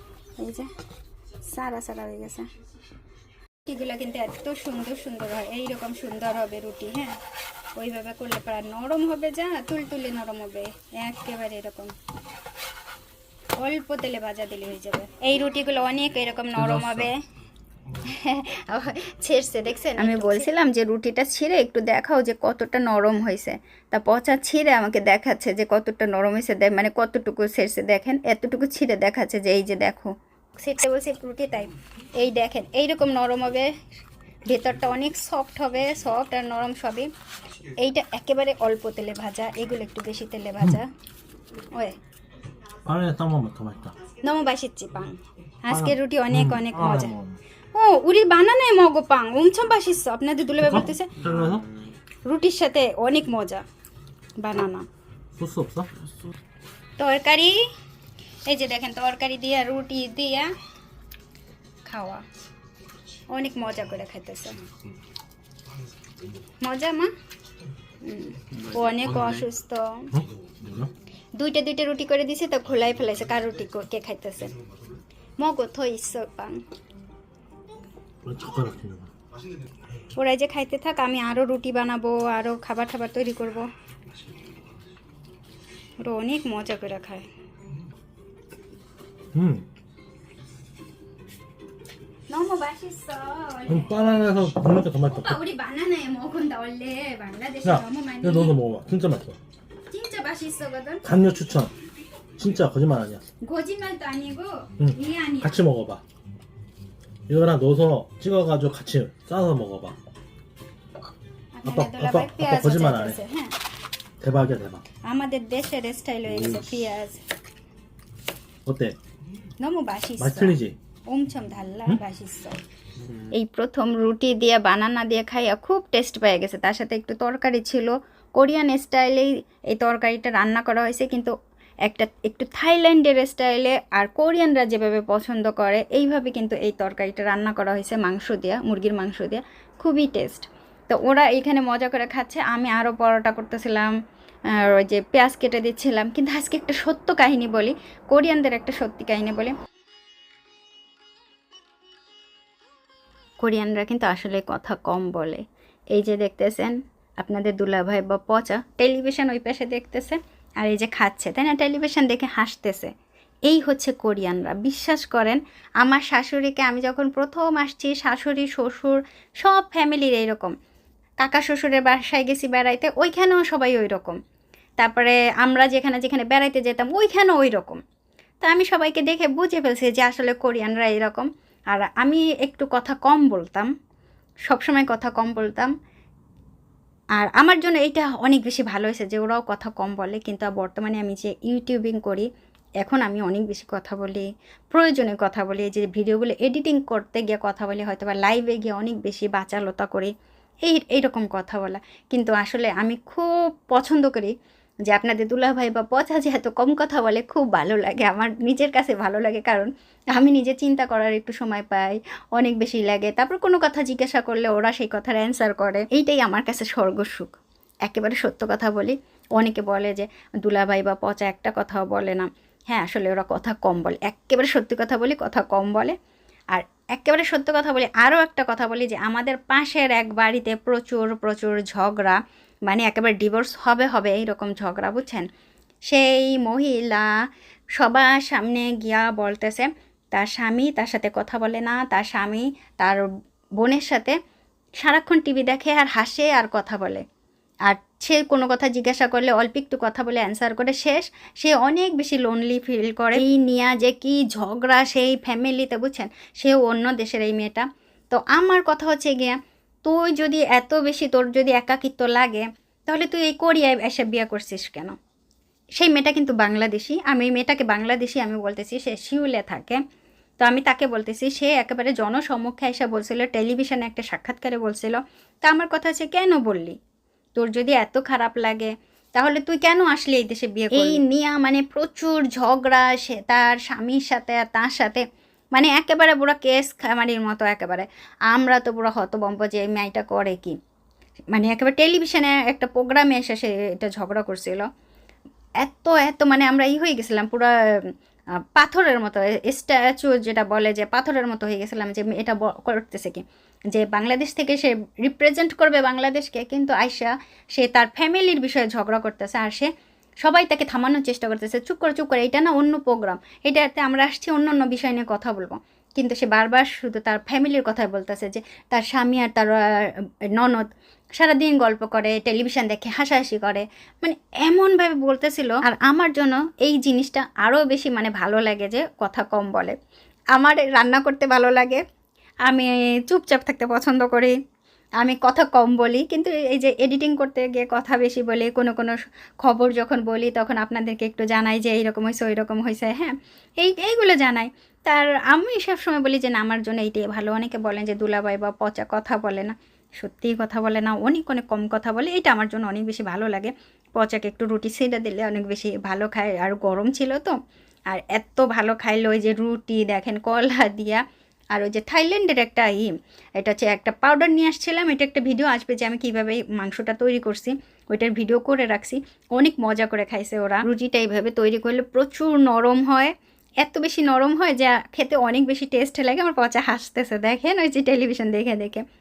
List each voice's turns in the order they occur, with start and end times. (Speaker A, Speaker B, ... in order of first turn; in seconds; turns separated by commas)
Speaker A: 0.4-0.7, Speaker A: 1.4-2.4, Speaker A: 3.6-7.2, Speaker A: 7.8-11.9, Speaker A: 13.6-17.2, Speaker B: 16.6-17.1, Speaker A: 18.0-33.7, Speaker A: 34.5-37.1, Speaker A: 37.8-40.9, Speaker B: 42.9-43.9, Speaker A: 44.2-47.1, Speaker B: 45.7-47.4, Speaker A: 47.7-51.1, Speaker B: 50.6-51.7, Speaker A: 52.2-53.6, Speaker A: 54.4-54.9, Speaker B: 55.4-55.9, Speaker A: 57.0-57.5, Speaker A: 58.5-60.5, Speaker A: 61.9-62.2, Speaker A: 63.3-64.6, Speaker A: 66.6-67.1, Speaker A: 68.0-70.1, Speaker B: 70.1-70.9, Speaker A: 71.4-74.5, Speaker A: 75.4-76.6, Speaker B: 78.2-79.1, Speaker A: 80.2-83.7, Speaker A: 86.0-87.2, Speaker B: 89.3-89.6, Speaker A: 92.3-94.0, Speaker B: 93.7-95.4, Speaker A: 94.9-98.6, Speaker B: 97.6-99.4, Speaker A: 99.9-101.0, Speaker B: 101.0-101.7, Speaker B: 102.4-103.2, Speaker A: 103.4-105.6, Speaker B: 104.8-106.0, Speaker B: 107.3-110.0, Speaker A: 111.5-113.5, Speaker B: 111.7-113.2, Speaker B: 114.2-114.8, Speaker A: 115.0-117.2, Speaker B: 116.3-116.9, Speaker B: 118.7-119.0, Speaker A: 119.6-122.6, Speaker B: 120.2-120.8, Speaker A: 123.2-131.3, Speaker A: 131.8-143.9, Speaker A: 144.5-149.5, Speaker A: 153.4-162.9, Speaker A: 163.4-170.5, Speaker A: 171.2-174.2, Speaker A: 174.8-177.8, Speaker A: 178.4-183.7, Speaker A: 184.5-185.7, Speaker A: 187.1-192.3, Speaker A: 192.8-200.1, Speaker A: 200.6-204.3, Speaker A: 204.9-225.9, Speaker A: 226.5-235.2, Speaker A: 235.9-237.1, Speaker A: 237.8-243.1, Speaker A: 243.6-244.2, Speaker A: 244.8-247.0, Speaker A: 247.7-264.9, Speaker A: 265.8-269.8, Speaker A: 270.4-276.8, Speaker A: 277.3-290.6, Speaker A: 291.3-294.7, Speaker A: 295.6-297.9, Speaker A: 298.5-309.7, Speaker A: 310.2-329.7, Speaker A: 330.3-331.8, Speaker A: 332.4-334.3, Speaker A: 335.0-357.4, Speaker A: 357.9-361.0, Speaker A: 361.5-378.8